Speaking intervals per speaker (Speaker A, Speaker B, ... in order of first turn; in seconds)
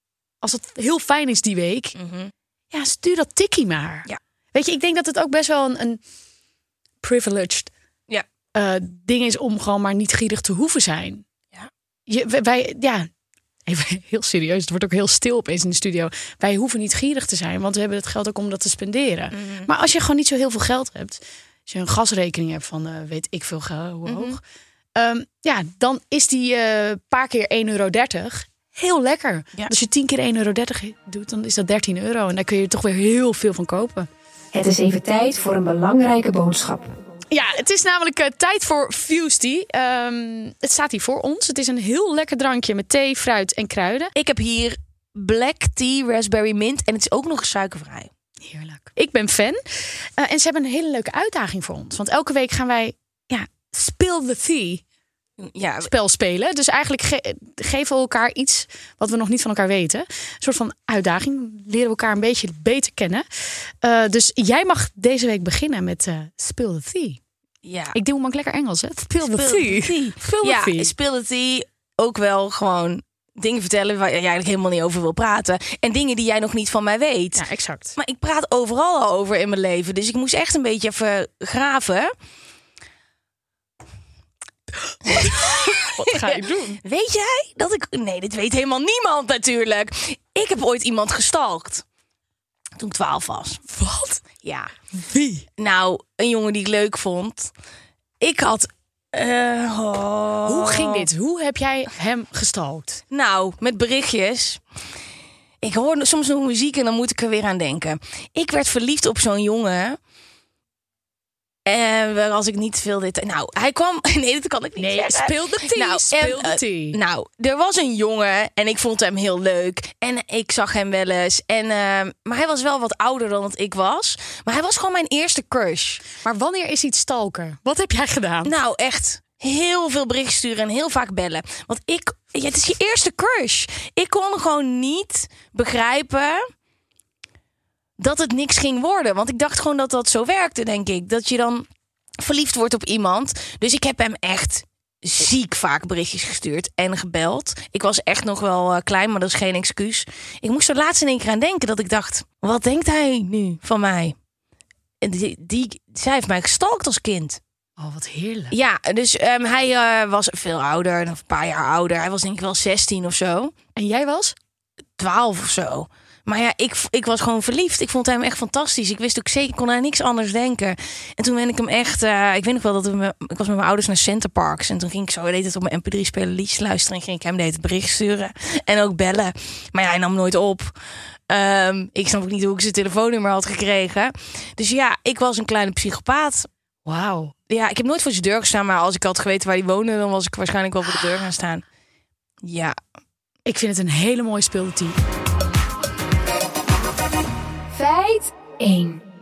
Speaker A: 0.4-1.9, 2.7-6.0, 7.0-7.7, 8.5-11.2, 12.1-13.1, 13.7-24.4, 24.9-34.1, 37.3-44.1, 48.4-54.8, 55.8-67.2, 67.9-70.9, 77.3-78.0, 85.0-86.8, 93.7-94.2, 94.9-95.5, 100.4-103.0, 114.8-117.0, 126.2-128.5, 157.8-158.5, 163.8-164.3, 186.8-187.3, 193.4-195.0
Speaker B: 1.9-2.3, 19.3-19.7, 24.1-24.4, 44.1-48.1, 55.4-55.9, 67.6-68.0, 69.2-77.4, 78.0-82.1, 85.0-91.8, 92.8-93.6, 94.4-94.7, 95.6-97.5, 98.2-101.1, 103.1-104.6, 105.6-110.0, 111.7-126.0, 128.4-136.4, 138.0-141.7, 142.2-154.1, 155.0-157.4, 158.5-163.5, 165.0-180.7, 181.3-186.5, 187.5-191.6, 192.4-192.8
Speaker C: 34.5-37.0, 197.7-199.0